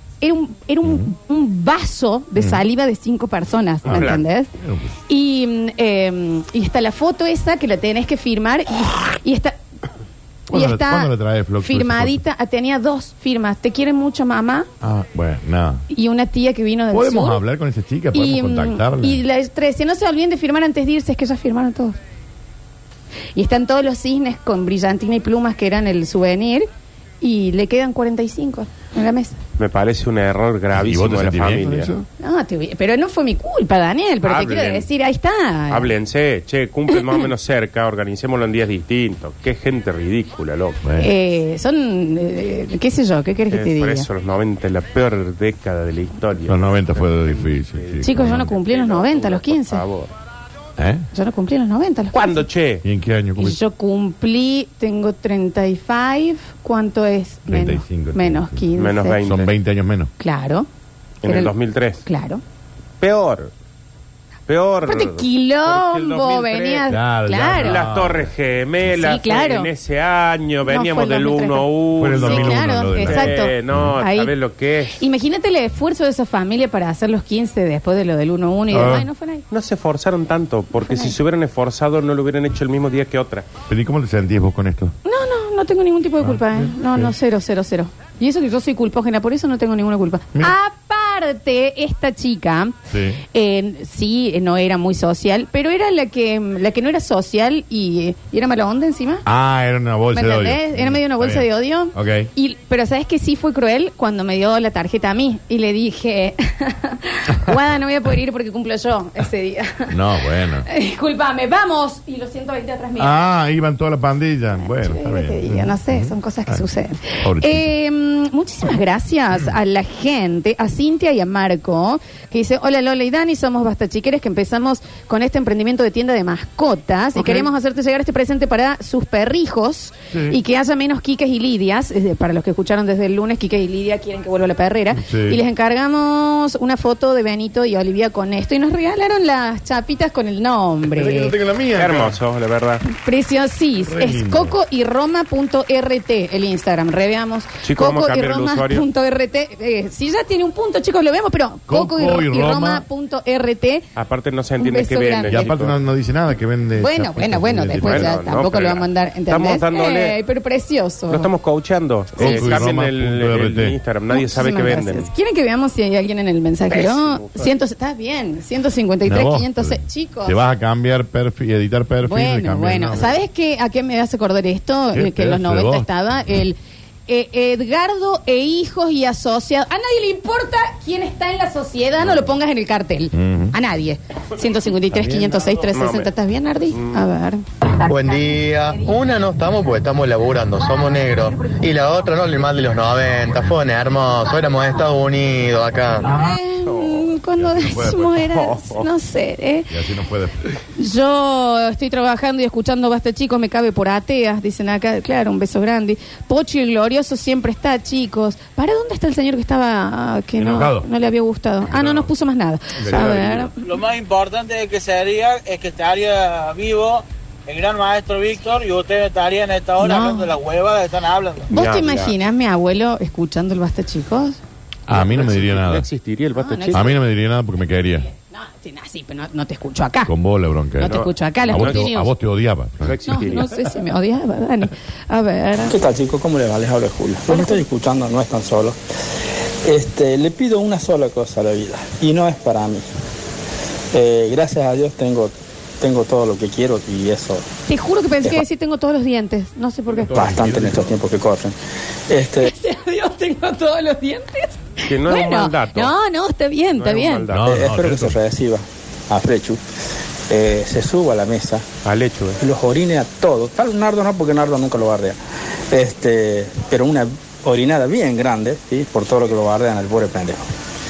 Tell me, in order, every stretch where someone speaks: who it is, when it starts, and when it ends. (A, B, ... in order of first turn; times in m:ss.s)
0:00.2-0:04.5 A
0:02.4-0:02.6 B
0:03.8-0:05.0 B
0:03.9-0:04.2 C
0:05.1-0:09.6 A
0:10.5-0:14.7 A
0:10.5-0:12.2 B
0:14.8-0:15.8 B
0:15.9-0:17.4 A
0:16.9-0:19.2 B
0:18.1-0:22.0 A
0:23.3-0:26.7 A
0:27.2-0:29.4 A
0:29.6-0:31.9 C
0:30.7-0:32.0 B
0:32.2-0:35.9 A
0:34.2-0:34.9 C
0:35.7-0:40.8 C
0:40.8-0:41.1 B
0:41.0-0:44.1 A
0:43.5-0:50.1 C
0:46.5-0:48.4 B
0:48.0-0:49.8 A
0:50.8-0:51.1 B
0:51.1-0:52.4 A
0:52.1-0:52.8 C
0:52.8-0:53.6 B
0:53.4-0:59.2 A
0:57.5-0:58.6 B
0:58.8-0:59.5 C
0:59.2-1:00.1 B
1:00.2-1:00.7 A
1:01.2-1:02.0 C
1:01.2-1:01.5 A
1:02.0-1:02.4 A
1:03.0-1:03.5 C
1:04.5-1:06.9 C
1:04.8-1:07.8 A
1:06.9-1:08.3 B
1:07.6-1:15.0 C
1:08.9-1:09.7 A
1:10.7-1:14.3 A
1:12.0-1:13.9 B
1:15.0-1:19.5 A
1:18.7-1:19.1 B
1:19.5-1:23.4 C
1:20.8-1:21.1 A
1:23.7-1:24.9 B
1:25.0-1:32.8 A
1:26.2-1:27.1 B
1:32.9-1:33.2 B
1:33.3-1:39.2 A
1:39.2-1:42.3 B
1:40.1-1:49.9 A
1:49.9-1:50.6 B
1:50.6-1:53.2 A
1:53.0-1:56.6 B
1:54.6-2:21.3 A
1:57.2-1:57.7 B
2:07.1-2:07.5 B
2:10.1-2:10.4 B
2:14.9-2:15.4 B
2:20.8-2:22.2 B
2:21.8-2:22.8 C
2:22.9-2:33.8 A
2:23.8-2:24.5 B
2:27.6-2:28.8 C
2:31.7-2:32.8 B
2:34.0-2:35.8 C
2:34.6-2:35.5 A
2:35.3-2:38.1 B
2:36.8-2:41.3 A
2:37.7-2:40.2 C
2:41.1-2:45.1 C
2:42.2-2:43.8 B
2:42.2-2:42.6 A
2:44.1-2:50.4 A
2:46.7-2:47.4 C
2:49.1-2:53.2 B
2:52.0-2:56.6 A
2:54.9-2:55.9 B
2:57.1-3:07.4 A
3:03.1-3:03.6 B
3:04.9-3:05.3 B
3:05.7-3:06.1 C
3:06.7-3:07.0 C
3:07.8-3:16.1 D
3:16.0-3:19.7 A
3:16.6-3:17.1 C
3:17.4-3:18.3 B
3:18.3-3:18.9 C
3:19.7-3:20.3 B
3:20.8-3:33.5 A
3:30.4-3:30.9 B
3:32.8-3:33.4 B
3:32.9-3:33.4 C
3:33.6-3:41.5 E
3:39.8-3:40.3 A
3:41.5-3:42.1 C
3:41.5-3:44.4 A
3:44.9-3:45.8 B
3:44.9-3:46.9 C
3:46.4-3:46.8 A
3:46.7-3:48.1 B
3:48.1-3:50.1 A
3:50.0-3:53.0 B
3:50.8-3:52.1 A
3:50.8-3:51.9 C
3:52.8-3:53.6 C
3:53.1-3:55.7 A
3:55.7-3:58.8 F
3:57.3-3:57.6 A
3:59.6-4:02.8 F
4:03.9-4:07.4 F
4:07.7-4:10.1 A
4:10.1-4:10.9 B
4:10.1-4:11.5 F
4:12.1-4:12.5 F
4:12.4-4:17.3 A
4:14.9-4:15.9 C
4:16.8-4:17.5 C
4:17.3-4:18.2 B
4:17.5-4:19.6 F
4:20.3-4:21.6 F
4:21.8-4:22.4 C
4:22.4-4:25.2 F
4:25.7-4:30.4 F